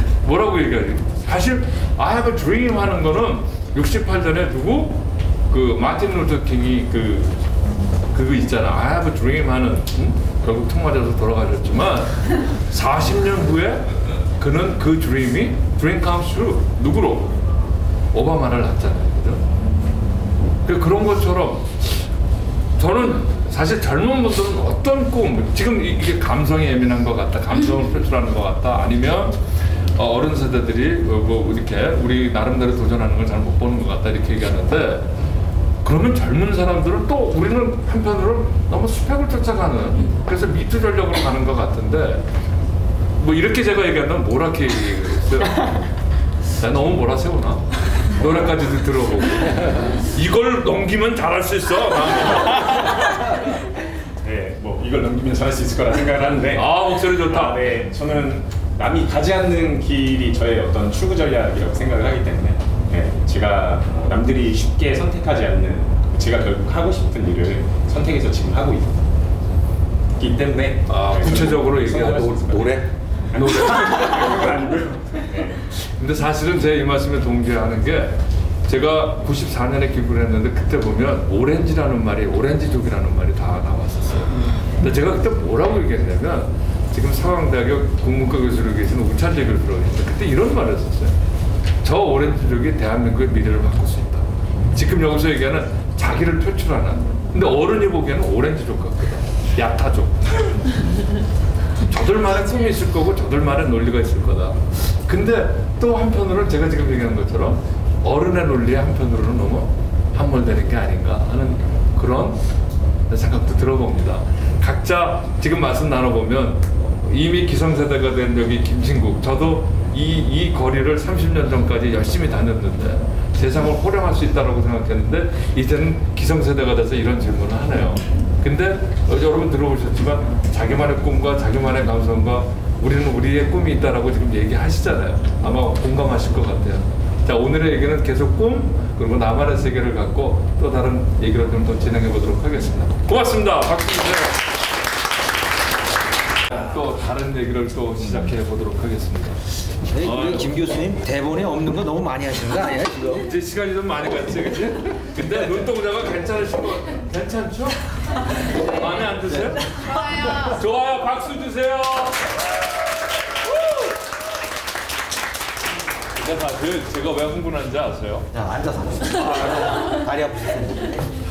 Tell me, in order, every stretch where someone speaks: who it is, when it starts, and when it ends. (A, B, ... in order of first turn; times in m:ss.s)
0:00.2-0:07.3 A
0:08.1-0:17.4 A
0:18.1-0:19.4 A
0:20.6-0:22.0 A
0:22.8-0:29.4 A
0:29.9-0:35.1 A
0:35.8-0:42.2 A
0:43.2-0:45.8 A
0:46.5-0:53.4 A
0:54.2-1:09.0 B
0:56.5-0:57.7 A
1:10.2-1:15.6 B
1:10.9-1:14.0 A
1:15.7-1:31.1 A
1:31.8-1:40.6 A
1:41.7-1:52.4 A
1:53.1-2:24.5 A
2:26.5-2:30.6 A
2:29.9-2:33.3 C
2:33.2-2:42.5 A
2:39.2-2:39.5 C
2:46.1-2:48.3 A
2:48.3-2:51.1 C